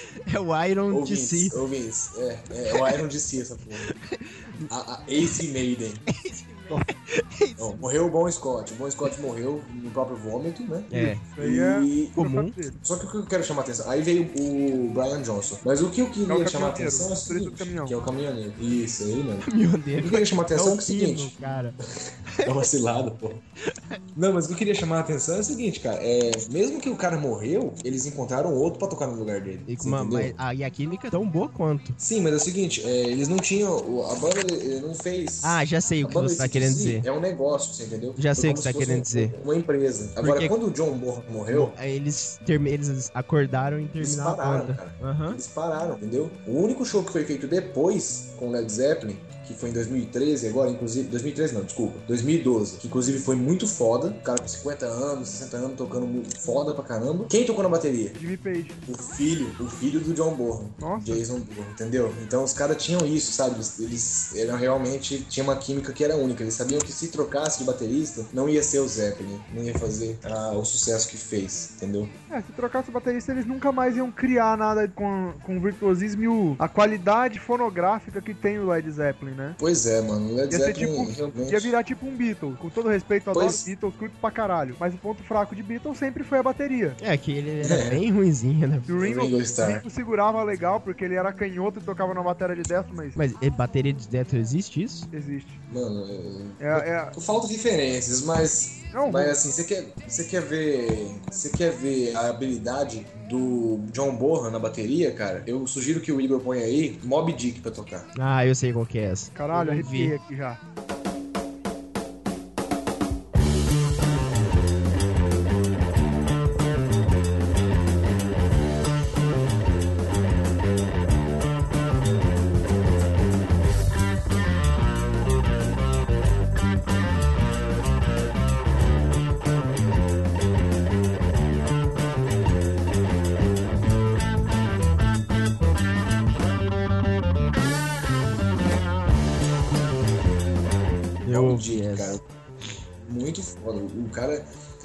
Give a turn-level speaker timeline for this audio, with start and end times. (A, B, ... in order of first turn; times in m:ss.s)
0:00.3-0:01.6 A
0:00.9-0:03.9 B
0:02.7-0:03.0 A
0:03.9-0:04.7 A
0:04.7-0:06.0 B
0:06.1-0:07.8 A
0:07.6-0:12.2 B
0:10.9-0:11.2 A
0:11.2-0:12.8 C
0:12.2-0:12.5 A
0:12.8-0:21.4 B
0:16.3-0:18.0 C
0:19.4-0:21.8 A
0:22.1-0:23.4 B
0:22.3-0:22.6 A
0:23.6-0:24.0 A
0:24.1-0:30.4 B
0:29.7-0:32.0 A
0:32.0-0:41.7 B
0:35.4-0:37.0 A
0:38.2-0:39.3 A
0:40.2-0:40.5 A
0:41.5-0:45.4 A
0:44.0-0:58.2 B
0:58.2-0:58.8 C
0:58.8-1:12.1 B
1:00.8-1:01.2 C
1:12.3-1:19.6 C
1:19.6-1:21.7 B
1:20.5-1:27.0 C
1:23.3-1:23.7 B
1:27.0-1:28.9 A
1:27.6-1:28.0 B
1:28.9-1:33.2 C
1:29.0-1:29.8 B
1:33.2-1:35.1 A
1:35.1-1:35.6 C
1:35.7-1:48.1 B
1:36.6-1:37.1 C
1:38.9-1:39.4 C
1:48.1-1:50.1 A
1:49.3-1:50.6 C
2:21.2-2:22.2 A
2:21.3-2:22.2 B
2:23.0-2:24.4 B